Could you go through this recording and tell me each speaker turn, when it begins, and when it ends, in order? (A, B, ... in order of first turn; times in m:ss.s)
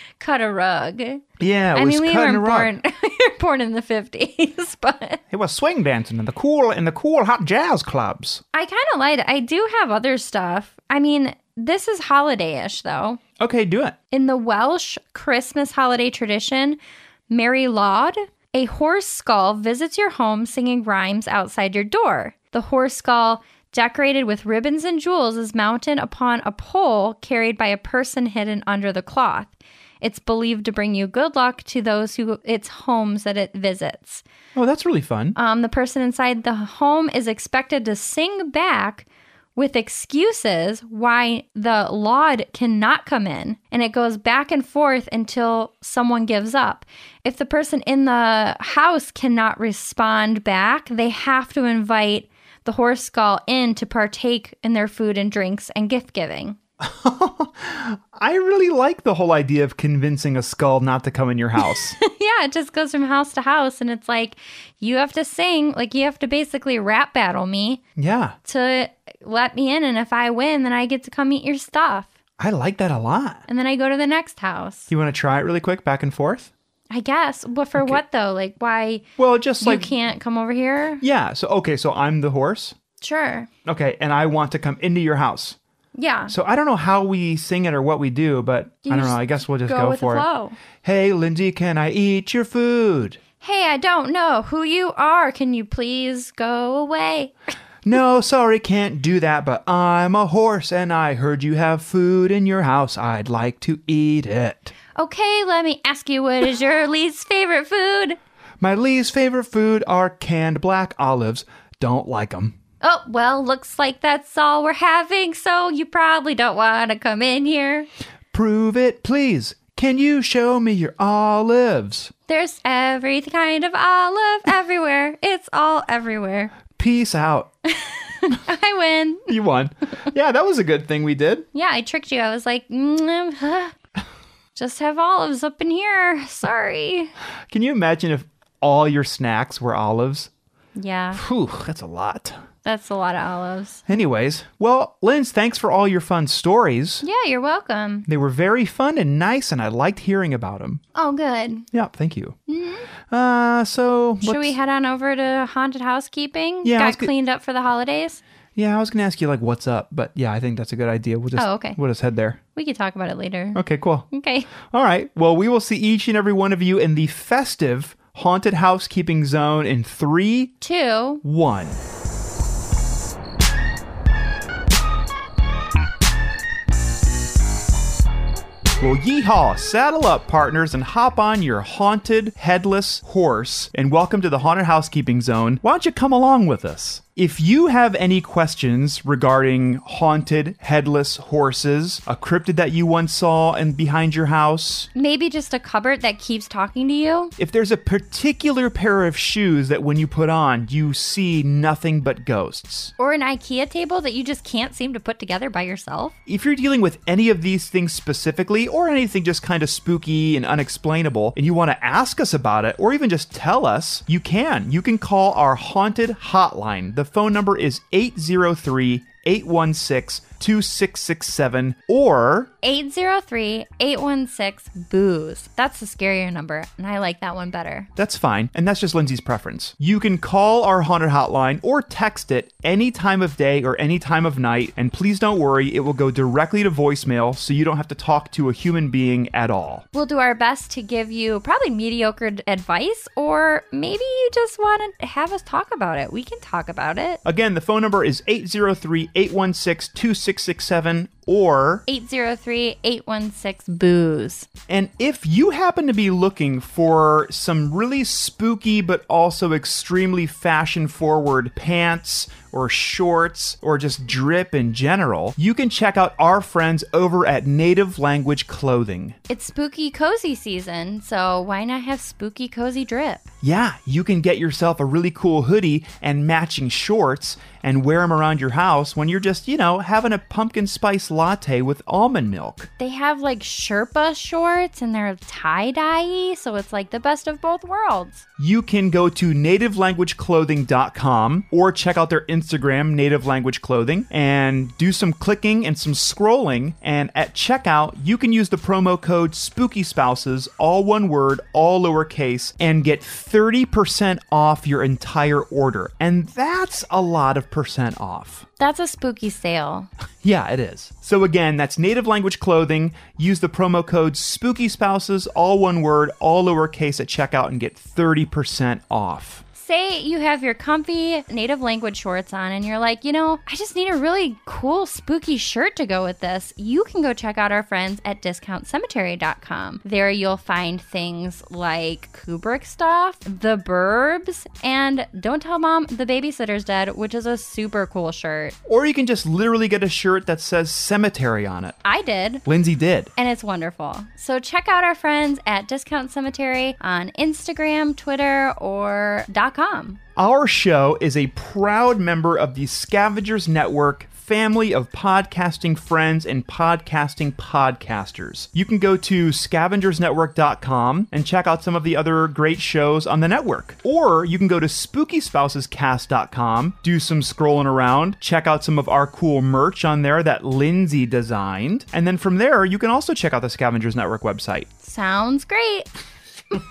0:00.2-0:01.2 A
0:01.4-0:02.7 B
0:01.7-0:05.2 A
0:05.3-0:08.4 B
0:08.5-0:13.2 A
0:13.4-0:14.0 B
0:14.1-0:16.8 A
0:17.3-0:34.2 A
0:34.6-0:35.4 B
0:35.4-0:56.6 A
0:56.8-1:02.0 B
1:01.7-1:07.8 A
1:08.0-1:08.4 B
1:08.4-1:12.1 A
1:12.4-1:13.4 B
1:13.5-1:14.9 A
1:14.9-1:16.5 B
1:16.9-1:19.0 A
1:17.8-1:18.0 B
1:19.2-1:19.9 B
1:19.6-1:21.0 A
1:21.0-1:22.8 B
1:23.0-1:23.5 A
1:23.6-1:25.6 B
1:26.0-1:26.3 A
1:26.3-1:30.3 B
1:28.8-1:30.6 A
1:30.8-1:33.2 B
1:33.4-1:37.3 A
1:37.8-1:44.7 B
1:45.0-1:48.2 A
1:48.6-1:52.6 B
1:52.8-1:57.9 A
1:58.3-2:02.1 B
2:02.3-2:06.5 A
2:06.8-2:07.5 B
2:07.7-2:09.3 A
2:09.3-2:11.5 B
2:11.5-2:13.8 A
2:14.6-2:17.1 A
2:17.5-2:20.3 B
2:20.8-2:21.2 A
2:21.1-2:22.4 B
2:22.6-2:23.8 A
2:23.9-2:27.0 B
2:27.0-2:28.1 A
2:28.1-2:30.8 B
2:31.0-2:31.7 A
2:31.7-2:32.4 B
2:32.5-2:32.9 A
2:33.1-2:34.6 B
2:34.2-2:38.2 A
2:36.6-2:37.1 B
2:38.6-2:42.4 B
2:41.4-2:41.8 A
2:42.6-2:43.6 A
2:43.5-2:44.1 B
2:44.1-2:44.5 A
2:44.6-2:50.6 B
2:50.6-2:51.2 A
2:51.2-2:51.8 B
2:58.8-3:14.9 B
3:15.0-3:17.3 A
3:17.4-3:22.9 B
3:23.0-3:26.1 A
3:26.3-3:42.5 B
3:42.6-3:47.9 A
3:48.0-3:59.8 B
3:59.9-4:07.2 A
4:07.2-4:11.8 B
4:11.9-4:14.5 A
4:14.7-4:29.2 B
4:29.3-4:33.3 A
4:33.4-4:42.7 B
4:42.8-4:48.3 A
4:48.4-5:08.5 B
5:08.6-5:09.9 A
5:10.2-5:19.4 B
5:19.6-5:38.6 A
5:38.7-5:41.8 B
5:41.8-5:42.4 A
5:42.4-5:43.1 B
5:43.2-5:50.0 A
5:50.2-6:14.7 B
6:14.8-6:15.9 A